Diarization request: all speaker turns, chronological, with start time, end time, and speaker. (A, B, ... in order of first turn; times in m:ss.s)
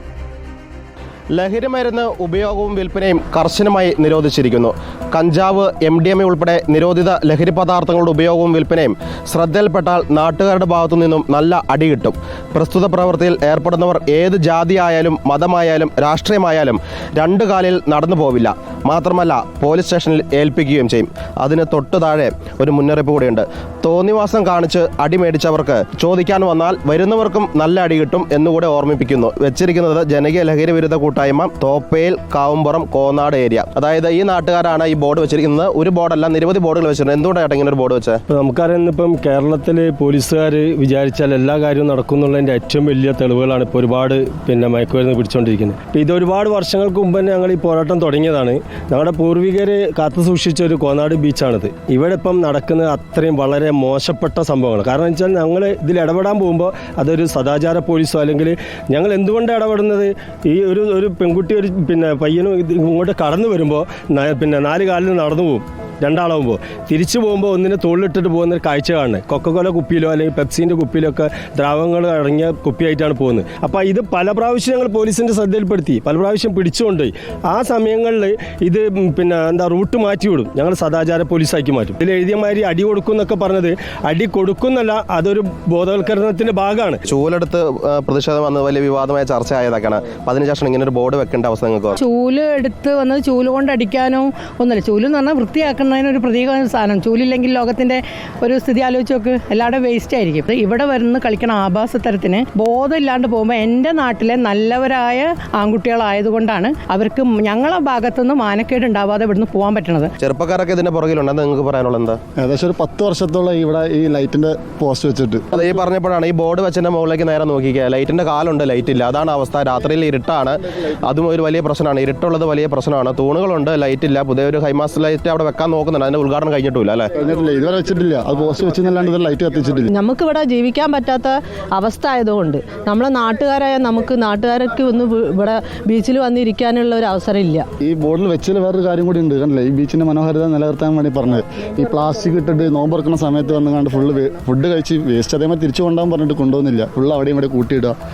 0:01.3-0:38.2 A
0:38.3-1:27.0 B
1:27.1-1:32.0 A
1:32.0-1:50.1 C
1:50.2-1:52.2 A
1:52.4-1:55.4 D
1:55.5-2:00.6 A
2:01.1-2:07.1 A
2:07.2-2:09.9 D
2:09.9-2:17.7 E
2:17.8-2:28.0 D